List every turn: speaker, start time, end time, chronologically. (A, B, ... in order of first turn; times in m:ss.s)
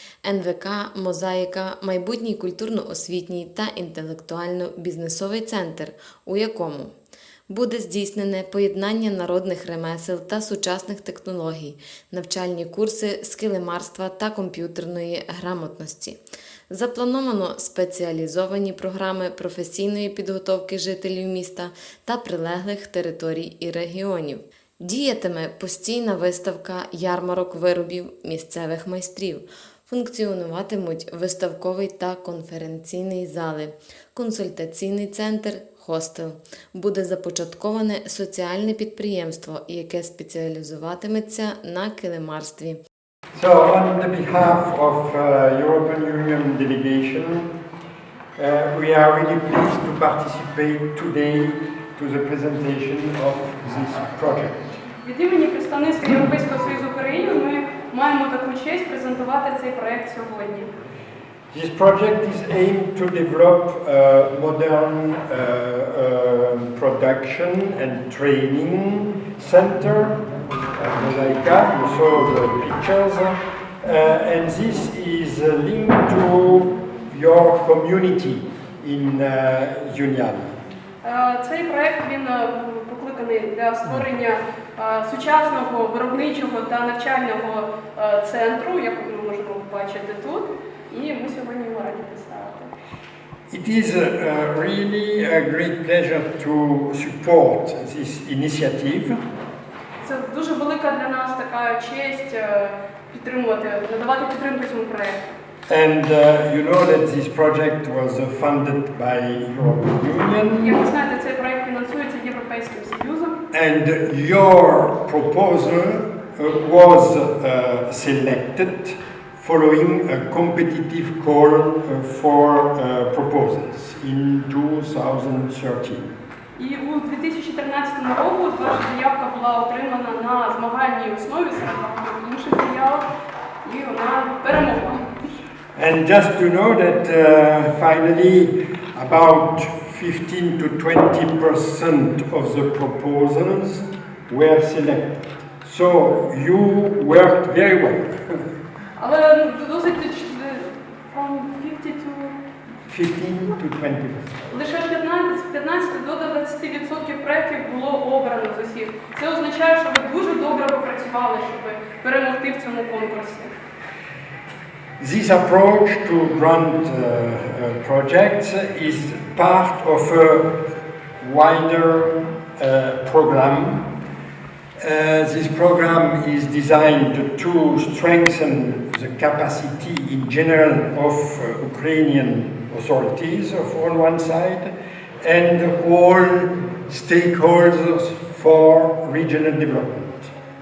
0:00.2-0:06.9 A
0:07.5-0:16.2 A
0:16.7-0:42.8 A
0:43.4-0:47.5 B
0:48.4-0:54.7 B
0:55.0-1:00.7 C
1:01.5-1:10.2 B
1:10.7-1:20.6 B
1:21.0-1:32.7 C
1:33.5-1:39.2 B
1:40.0-1:45.3 C
1:45.7-1:50.8 B
1:50.6-1:53.3 C
1:53.5-2:06.1 B
2:06.6-2:13.0 C
2:13.6-2:15.1 C
2:15.8-2:28.2 B
2:29.0-2:32.4 C
2:32.9-2:34.4 B
2:34.5-2:43.5 C
2:45.0-2:50.4 B
2:51.2-2:53.9 B
2:54.8-3:10.3 B